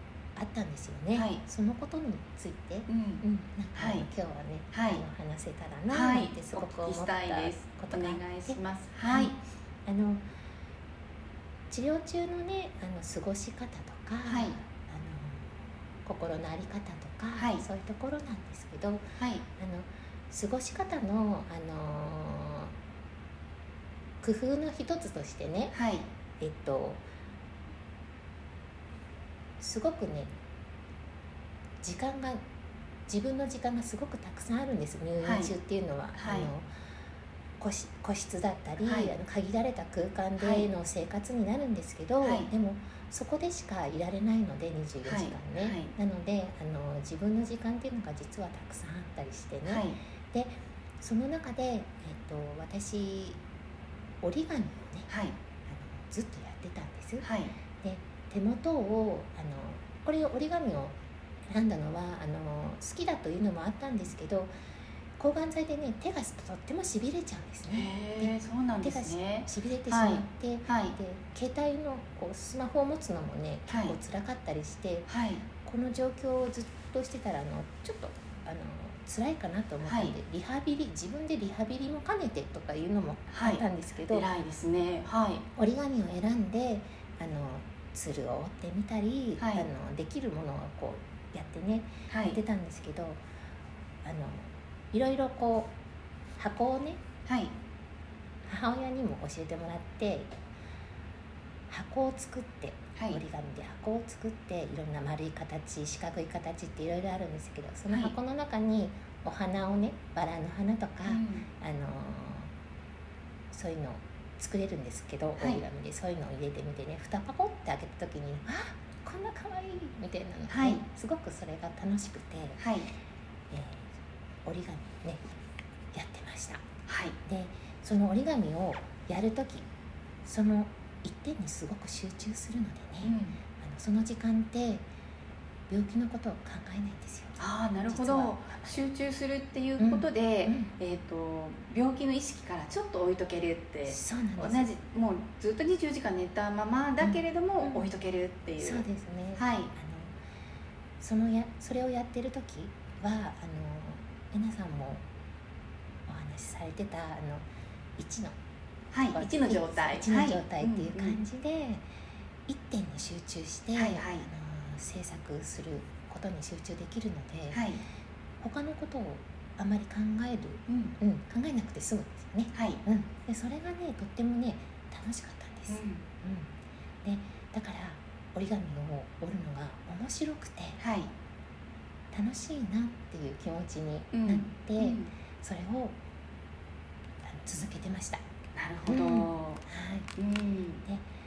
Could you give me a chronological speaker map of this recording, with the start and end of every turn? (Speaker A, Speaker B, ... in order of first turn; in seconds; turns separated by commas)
Speaker A: 0.3-10.3, Speaker B: 1.1-1.4, Speaker B: 2.9-4.1, Speaker B: 4.7-5.0, Speaker B: 5.9-9.3, Speaker A: 11.7-19.0, Speaker B: 14.2-14.6, Speaker B: 17.4-17.6, Speaker B: 19.2-19.4, Speaker A: 19.6-22.7, Speaker A: 24.2-25.7, Speaker B: 25.7-26.1, Speaker A: 26.4-27.0, Speaker A: 29.6-30.3, Speaker A: 31.8-32.4, Speaker A: 33.1-36.7, Speaker B: 35.2-35.5, Speaker B: 36.1-36.5, Speaker A: 37.6-53.4, Speaker B: 38.8-39.1, Speaker B: 40.4-40.7, Speaker B: 42.2-42.5, Speaker B: 45.0-45.9, Speaker B: 49.6-50.0, Speaker A: 54.2-55.1, Speaker B: 55.1-55.3, Speaker A: 55.6-57.2, Speaker B: 57.2-57.5, Speaker A: 57.8-61.0, Speaker A: 61.5-64.5, Speaker A: 65.2-75.1, Speaker B: 67.7-71.0, Speaker B: 73.7-74.0, Speaker B: 75.1-75.4, Speaker A: 75.6-84.3, Speaker B: 79.8-80.2, Speaker B: 83.3-85.4, Speaker A: 85.5-93.2, Speaker B: 89.4-89.7, Speaker B: 92.1-92.4, Speaker A: 94.0-95.7, Speaker A: 96.4-97.0, Speaker B: 97.2-97.5, Speaker A: 98.5-100.3, Speaker A: 101.7-112.5, Speaker B: 103.0-103.2, Speaker B: 107.9-108.1, Speaker B: 111.0-111.5, Speaker A: 113.5-122.6, Speaker B: 115.4-115.6, Speaker B: 120.5-120.8, Speaker B: 122.6-122.9, Speaker A: 123.5-123.9, Speaker A: 124.4-125.2, Speaker A: 125.9-126.6, Speaker B: 126.9-127.2, Speaker A: 127.2-129.7, Speaker A: 130.2-134.8, Speaker B: 133.0-133.4, Speaker A: 135.7-138.8, Speaker B: 137.4-149.7, Speaker A: 139.8-140.7, Speaker A: 143.8-144.7, Speaker A: 147.0-147.9, Speaker A: 148.6-150.2, Speaker A: 151.0-155.0, Speaker A: 156.1-157.4, Speaker A: 158.0-158.4, Speaker B: 158.9-161.2, Speaker A: 159.1-161.8, Speaker A: 162.5-167.6, Speaker B: 163.7-164.3, Speaker B: 167.5-167.8, Speaker A: 168.4-176.5, Speaker B: 170.7-171.0, Speaker B: 172.5-172.8, Speaker B: 175.7-176.0, Speaker A: 177.0-180.8, Speaker B: 180.8-181.1, Speaker A: 182.1-186.0, Speaker B: 184.1-185.1, Speaker A: 187.2-188.2, Speaker B: 188.6-189.6, Speaker A: 188.9-190.1, Speaker B: 190.2-190.8